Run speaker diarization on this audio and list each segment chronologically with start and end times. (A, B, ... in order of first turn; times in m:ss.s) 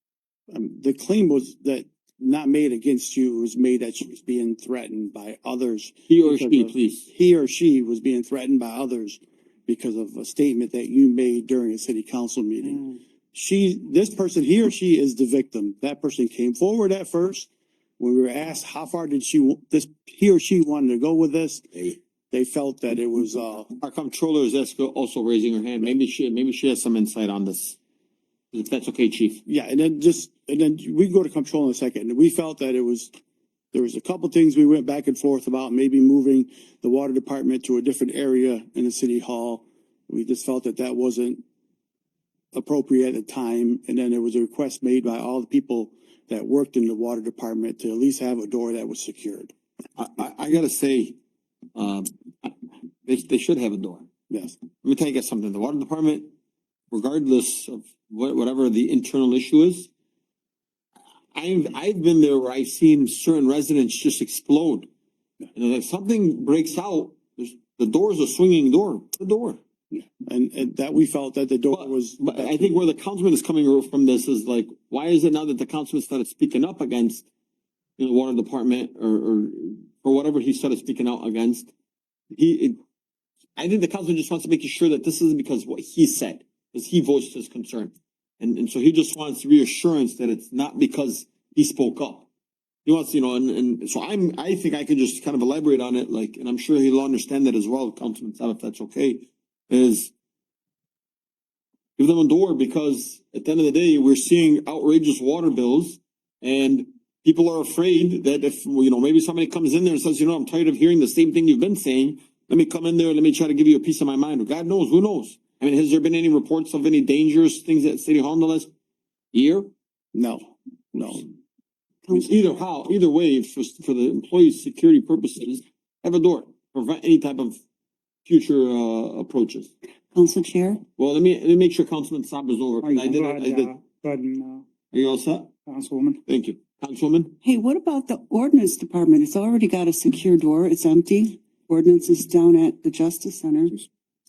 0:00.5-0:23.7 A
0:06.1-0:07.1 B
0:23.8-0:27.8 B
0:28.5-0:29.4 B
0:29.5-0:33.1 A
0:33.7-0:41.4 A
0:42.5-0:49.5 A
0:50.0-0:51.2 B
0:51.7-0:54.1 B
0:54.3-0:54.6 A
0:54.8-0:56.3 B
0:56.9-0:59.9 B
1:01.3-1:04.9 B
1:05.5-1:09.6 B
1:09.9-1:12.8 A
1:11.7-1:17.2 B
1:18.0-1:21.7 B
1:22.3-1:22.8 B
1:23.6-1:32.3 B
1:32.8-1:40.1 B
1:42.0-1:58.7 B
1:59.3-1:59.7 B
2:00.1-2:01.3 A
2:02.1-2:07.6 B
2:08.2-2:09.7 B
2:10.1-2:10.8 C
2:11.0-2:13.7 B
2:12.8-2:14.6 D
2:14.9-2:15.5 B
2:15.6-2:16.2 D
2:16.3-2:17.4 B
2:17.6-2:21.2 C
2:21.8-2:23.7 C